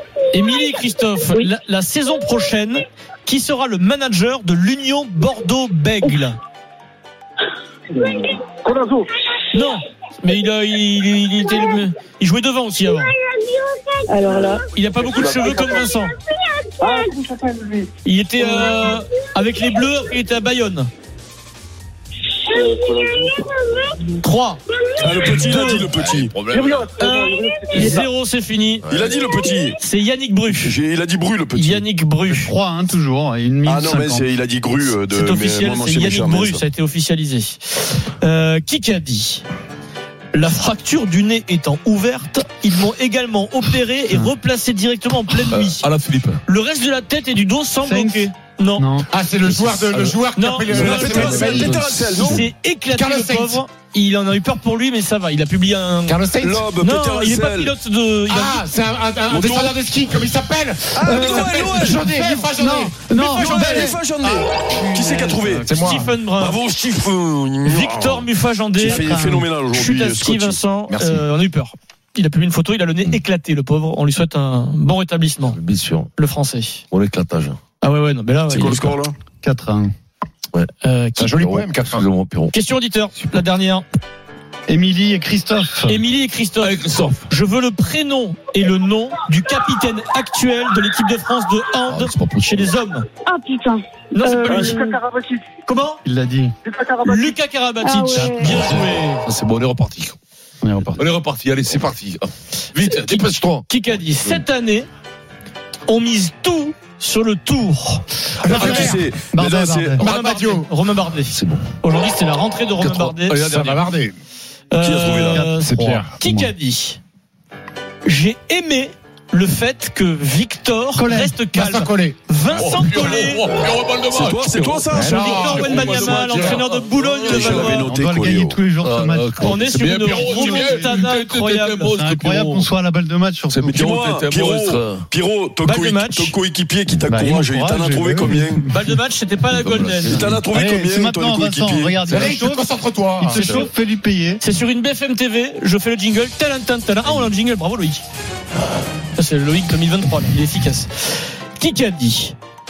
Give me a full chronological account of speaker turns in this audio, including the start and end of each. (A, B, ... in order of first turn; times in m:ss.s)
0:00.3-0:06.4 A
0:09.5-0:13.1 A
0:14.1-0:14.6 B
0:14.6-0:16.1 A
0:15.0-0:15.6 C
0:16.8-0:17.8 C
0:18.0-0:20.9 A
0:22.6-0:23.3 C
0:24.2-0:24.6 A
0:25.0-0:26.3 D
0:25.2-0:25.9 A
0:25.7-0:27.0 E
0:26.6-0:28.0 C
0:27.0-0:28.8 A
0:28.9-0:29.2 E
0:28.9-0:29.8 D
0:29.7-0:30.7 A
0:30.5-0:31.8 D
0:31.5-0:32.5 A
0:32.2-0:34.3 F
0:33.6-0:36.6 D
0:35.1-0:39.4 A
0:40.3-0:45.8 A
0:45.5-0:46.4 E
0:46.4-0:48.9 A
0:47.8-0:49.1 F
0:49.1-0:51.9 G
0:49.4-0:52.3 E
0:50.3-0:56.2 A
0:50.7-0:52.5 D
0:52.9-0:53.6 G
0:56.1-0:56.7 G
0:56.4-0:57.7 D
0:56.8-0:58.7 A
0:58.3-1:04.3 G
0:59.3-0:59.8 D
1:00.9-1:02.0 D
1:01.0-1:04.0 F
1:03.2-1:03.9 A
1:03.2-1:05.7 D
1:04.7-1:06.1 F
1:05.6-1:06.1 G
1:05.7-1:06.6 A
1:06.4-1:10.6 D
1:07.6-1:09.1 A
1:08.8-1:09.5 F
1:09.7-1:15.6 A
1:10.9-1:11.2 G
1:15.4-1:16.1 E
1:16.2-1:16.8 A
1:16.9-1:17.6 E
1:17.8-1:18.9 A
1:18.5-1:19.1 D
1:19.4-1:19.9 F
1:20.8-1:21.3 A
1:21.2-1:22.0 G
1:21.2-1:22.5 E
1:22.5-1:23.8 A
1:24.7-1:26.0 F
1:25.9-1:33.1 A
1:26.6-1:27.3 E
1:31.9-1:32.7 E
1:33.2-1:35.2 B
1:34.1-1:34.9 A
1:35.6-1:36.0 A
1:36.0-1:36.5 F
1:37.0-1:39.2 A
1:37.8-1:38.6 B
1:38.1-1:39.0 F
1:39.2-1:40.2 E
1:40.6-1:41.0 F
1:40.9-1:43.6 E
1:42.8-1:44.9 A
1:45.9-1:48.0 A
1:48.4-1:49.0 G
1:48.5-1:50.0 D
1:48.5-1:50.0 F
1:50.0-1:50.7 G
1:50.0-1:53.4 A
1:51.3-1:51.7 E
1:52.8-1:53.9 E
1:53.4-1:54.2 G
1:54.7-1:57.0 A
1:54.8-1:55.5 D
1:55.5-1:56.1 G
1:56.2-1:56.5 F
1:58.0-2:03.6 A
2:00.9-2:01.4 F
2:01.5-2:02.2 G
2:02.5-2:05.0 E
2:04.1-2:06.6 D
2:04.9-2:06.6 G
2:05.0-2:07.9 A
2:05.6-2:05.9 E
2:06.5-2:07.8 E
2:07.3-2:08.6 D
2:07.7-2:11.1 F
2:08.8-2:12.7 E
2:09.4-2:11.9 A
2:11.9-2:13.9 F
2:13.5-2:15.0 E
2:13.7-2:18.6 D
2:15.6-2:16.3 A
2:17.0-2:19.0 F
2:18.7-2:20.3 A
2:19.5-2:20.4 E
2:20.1-2:22.2 D
2:20.4-2:22.6 F
2:22.0-2:23.4 G
2:23.2-2:24.4 F
2:23.3-2:23.7 A
2:23.3-2:23.7 E
2:24.4-2:28.0 A
2:29.2-2:32.4 A